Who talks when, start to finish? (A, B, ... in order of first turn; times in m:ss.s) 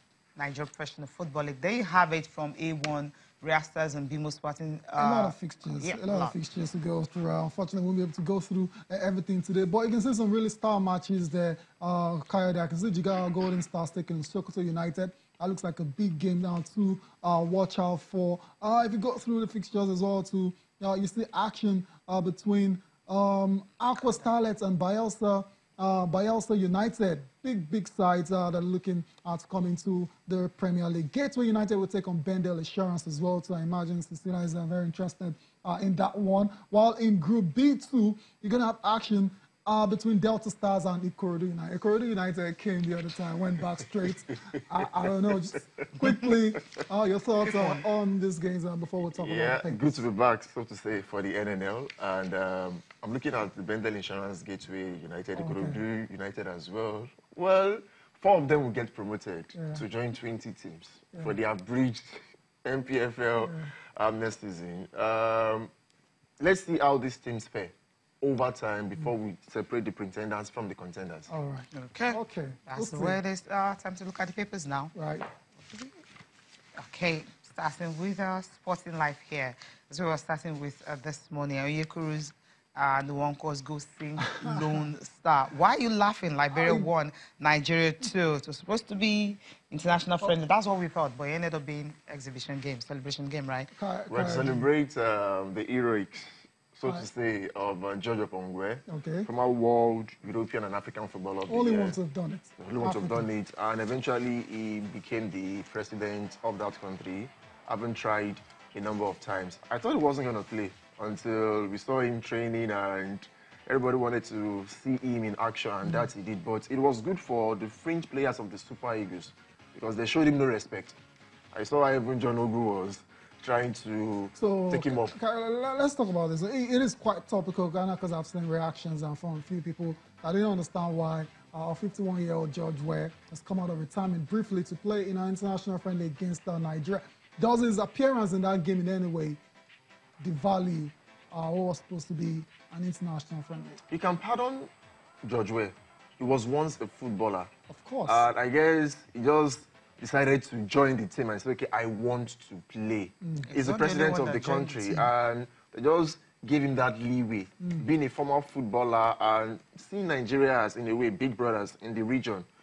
0:00.4-0:06.3 A
0:05.0-0:50.0 B
0:47.5-0:47.8 A
0:49.1-1:05.7 C
0:55.4-0:55.8 B
0:59.5-0:59.8 B
1:03.4-1:03.7 B
1:06.4-1:11.3 C
1:11.3-1:13.2 B
1:11.7-1:14.9 A
1:14.9-1:15.3 B
1:15.6-1:15.9 A
1:16.8-1:33.7 A
1:26.5-1:26.9 B
1:33.7-1:34.7 B
1:34.1-1:42.0 C
1:38.9-1:39.3 B
1:41.5-1:43.3 B
1:42.6-2:01.0 C
2:01.5-2:05.1 C
2:04.4-2:19.4 B
2:20.2-2:23.8 B
2:23.9-2:24.7 C
2:25.2-2:27.5 C
2:27.7-2:28.3 B
2:28.0-2:42.4 C
2:33.2-2:33.5 B
2:33.4-2:35.1 A